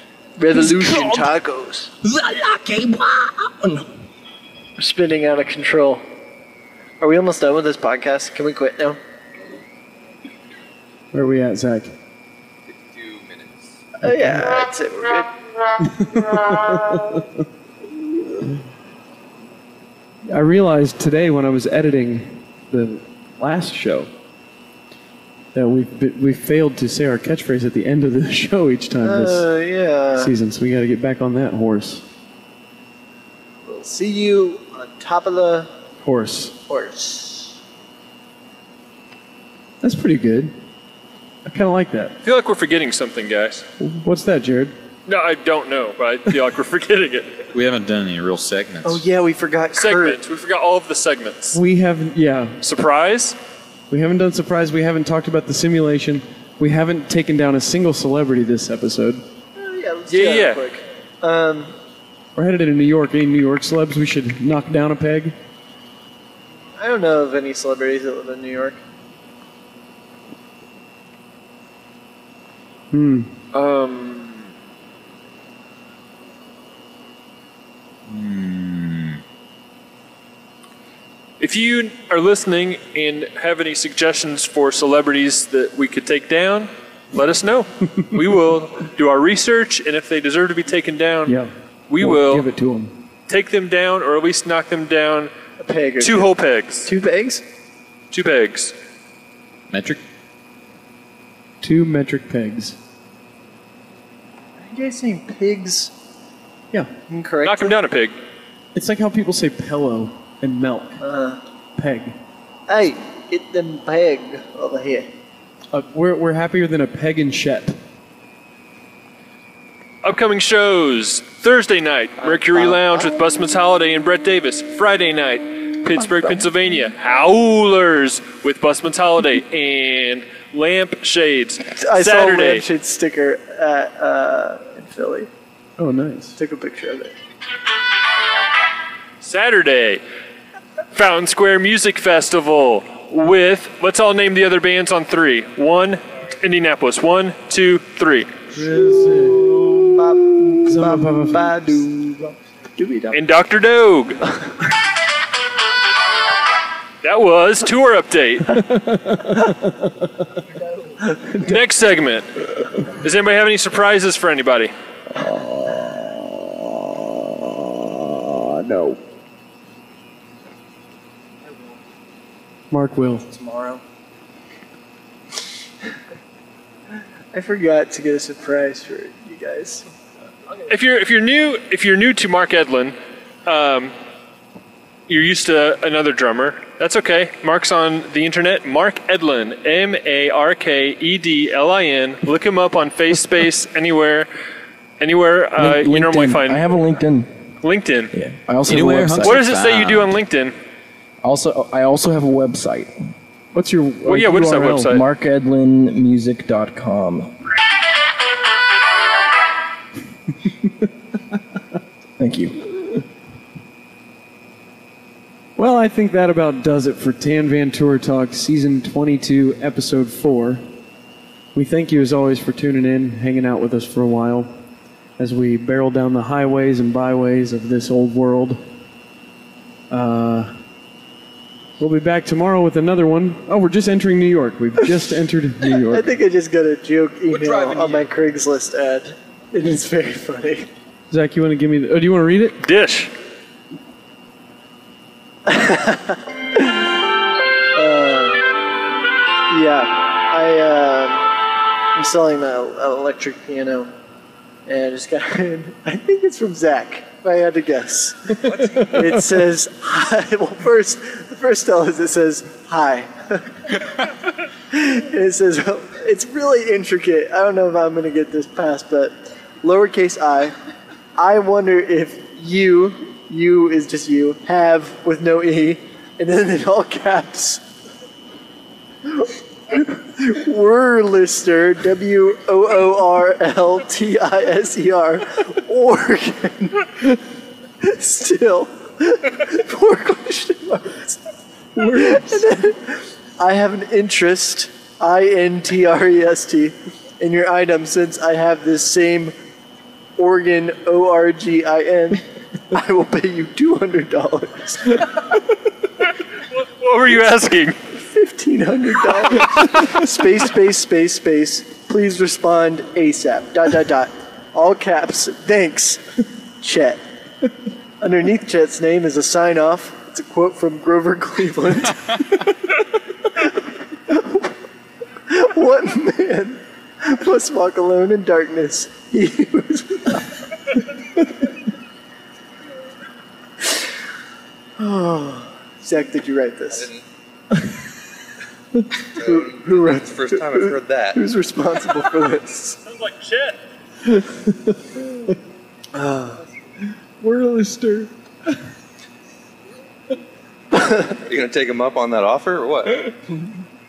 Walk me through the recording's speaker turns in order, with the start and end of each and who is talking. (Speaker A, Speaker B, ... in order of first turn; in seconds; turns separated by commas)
Speaker A: 0.4-1.9, Speaker B: 0.5-1.3, Speaker B: 2.0-3.9, Speaker A: 4.8-6.0, Speaker A: 7.0-9.0, Speaker C: 11.1-11.9, Speaker D: 12.7-13.8, Speaker A: 14.0-15.3, Speaker C: 15.8-17.3, Speaker C: 20.3-24.1, Speaker C: 25.5-29.4, Speaker A: 29.0-30.3, Speaker C: 30.1-32.0, Speaker A: 33.6-35.7, Speaker C: 36.0-36.5, Speaker A: 36.7-37.6, Speaker C: 39.8-40.5, Speaker C: 41.4-42.1, Speaker E: 42.2-43.6, Speaker C: 43.8-44.7, Speaker E: 45.1-47.4, Speaker F: 47.5-49.0, Speaker A: 48.8-50.2, Speaker E: 49.7-51.6, Speaker C: 51.5-52.6, Speaker E: 52.6-53.4, Speaker C: 53.9-59.2, Speaker A: 59.5-61.7, Speaker E: 60.1-60.6, Speaker C: 62.4-65.3, Speaker A: 66.8-68.8, Speaker C: 72.9-73.3, Speaker E: 73.5-74.4, Speaker F: 78.0-79.2, Speaker E: 81.4-91.4, Speaker C: 91.2-92.9, Speaker E: 91.9-92.5, Speaker E: 93.3-95.3, Speaker A: 95.6-97.4, Speaker E: 96.0-96.9, Speaker E: 98.1-98.7, Speaker F: 99.7-100.0, Speaker C: 101.6-102.8, Speaker A: 104.6-105.9, Speaker A: 107.1-107.8, Speaker E: 107.4-108.2, Speaker C: 108.7-111.0, Speaker A: 111.0-111.4, Speaker C: 111.8-112.2, Speaker A: 112.7-115.1, Speaker C: 115.7-117.8, Speaker E: 120.0-132.6, Speaker A: 122.2-123.1, Speaker A: 131.7-135.3, Speaker C: 135.8-136.4, Speaker A: 136.4-137.2, Speaker E: 139.2-140.0, Speaker E: 140.9-148.3, Speaker C: 148.5-149.9, Speaker A: 148.8-153.2, Speaker C: 150.6-151.8, Speaker E: 153.1-154.2, Speaker E: 157.0-158.7, Speaker C: 158.7-159.7, Speaker E: 161.3-164.7, Speaker B: 165.5-166.1, Speaker C: 168.7-168.9, Speaker C: 172.7-173.3, Speaker B: 173.4-173.8, Speaker A: 177.3-179.9, Speaker E: 180.7-182.9, Speaker E: 183.4-183.9, Speaker E: 185.1-194.3, Speaker E: 195.0-196.7, Speaker B: 195.6-197.3, Speaker E: 197.6-198.1, Speaker B: 198.1-199.4, Speaker F: 198.6-200.1, Speaker E: 199.2-200.5, Speaker B: 201.2-203.0, Speaker C: 203.5-205.0, Speaker E: 204.1-205.0, Speaker B: 204.8-207.3, Speaker B: 212.2-212.6, Speaker C: 215.6-220.6, Speaker C: 221.5-224.5, Speaker C: 225.2-228.6, Speaker C: 229.9-230.5, Speaker C: 231.8-236.1, Speaker A: 235.9-240.7, Speaker D: 237.3-238.1, Speaker C: 241.1-242.6, Speaker E: 242.6-243.1, Speaker A: 245.4-246.9, Speaker A: 247.7-248.4, Speaker A: 249.5-251.3, Speaker A: 251.9-253.9, Speaker A: 254.7-264.1, Speaker A: 264.7-270.5, Speaker A: 271.1-277.6, Speaker A: 279.1-287.2, Speaker A: 287.8-291.2, Speaker C: 291.8-292.4, Speaker A: 291.8-299.3, Speaker A: 300.2-305.2, Speaker E: 306.5-307.8, Speaker A: 307.9-316.0, Speaker A: 316.6-317.0, Speaker A: 318.0-322.5, Speaker A: 324.1-324.5, Speaker A: 325.3-330.4, Speaker A: 334.8-336.9, Speaker D: 336.7-337.0, Speaker D: 339.1-341.2, Speaker A: 339.1-342.8, Speaker E: 342.8-343.6, Speaker A: 345.9-346.4, Speaker C: 347.2-348.1, Speaker D: 351.1-353.1